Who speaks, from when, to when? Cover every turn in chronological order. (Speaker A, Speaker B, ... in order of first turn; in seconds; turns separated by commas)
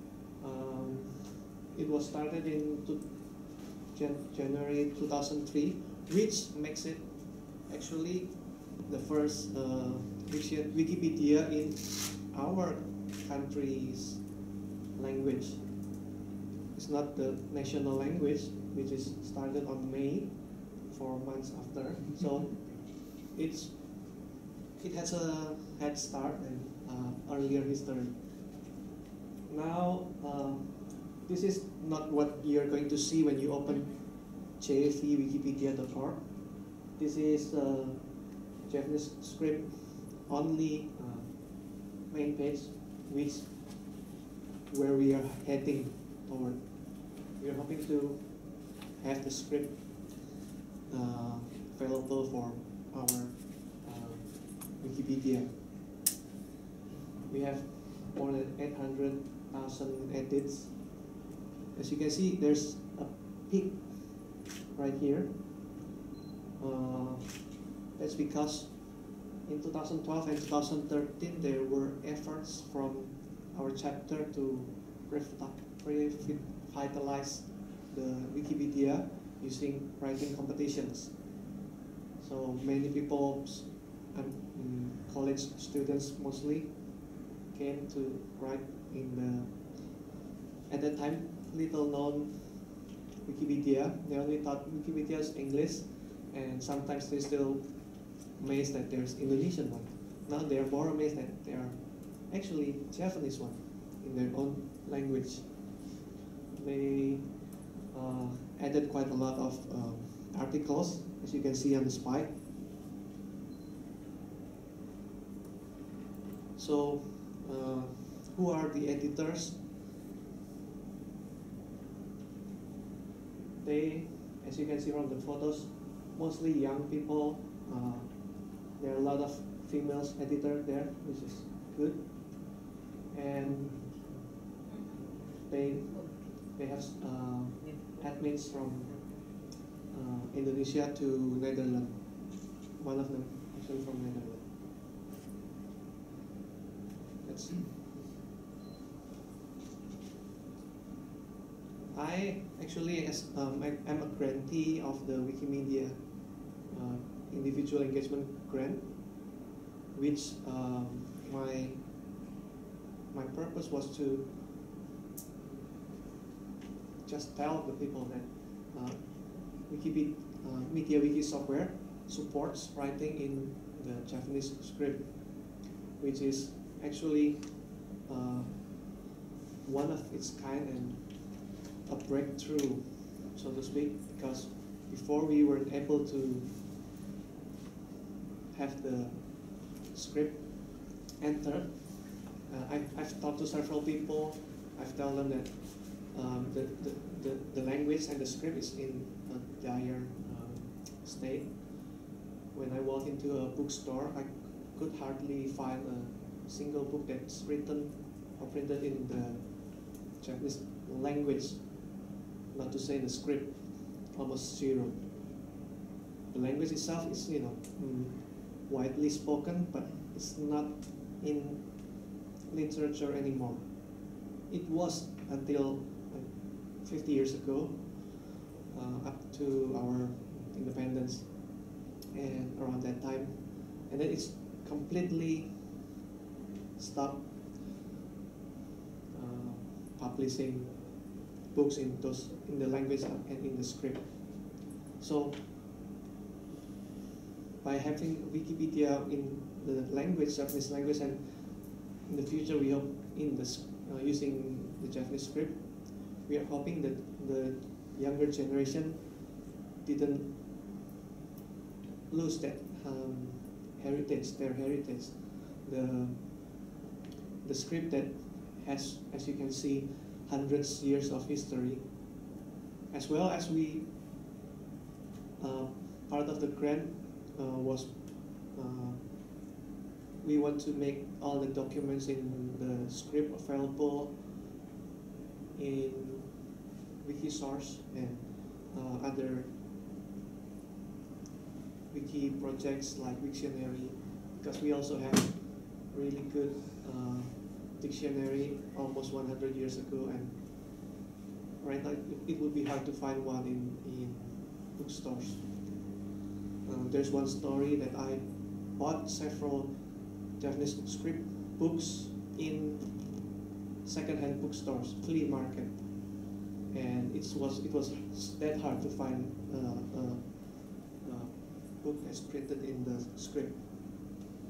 Speaker A: 0.4-16.0, Speaker A: 16.7-28.6, Speaker A: 29.5-44.0, Speaker A: 44.7-50.3, Speaker A: 50.9-56.0, Speaker A: 57.2-61.2, Speaker A: 61.7-65.8, Speaker A: 66.6-81.3, Speaker A: 82.2-90.1, Speaker A: 90.7-106.0, Speaker A: 106.5-112.3, Speaker A: 116.5-119.6, Speaker A: 123.6-133.9, Speaker A: 135.3-144.5, Speaker A: 147.2-147.7, Speaker A: 151.9-162.1, Speaker A: 163.1-164.4, Speaker A: 167.0-179.0, Speaker A: 179.6-186.5, Speaker A: 188.5-215.4, Speaker A: 216.3-235.8, Speaker A: 236.8-237.7, Speaker A: 239.1-245.4, Speaker A: 247.6-260.4, Speaker A: 262.1-266.6, Speaker A: 267.4-272.2, Speaker A: 272.9-273.9, Speaker A: 275.4-279.4, Speaker A: 280.2-284.4, Speaker A: 285.5-289.5, Speaker A: 291.9-301.0, Speaker A: 301.6-305.9, Speaker A: 306.6-313.3, Speaker A: 313.8-324.0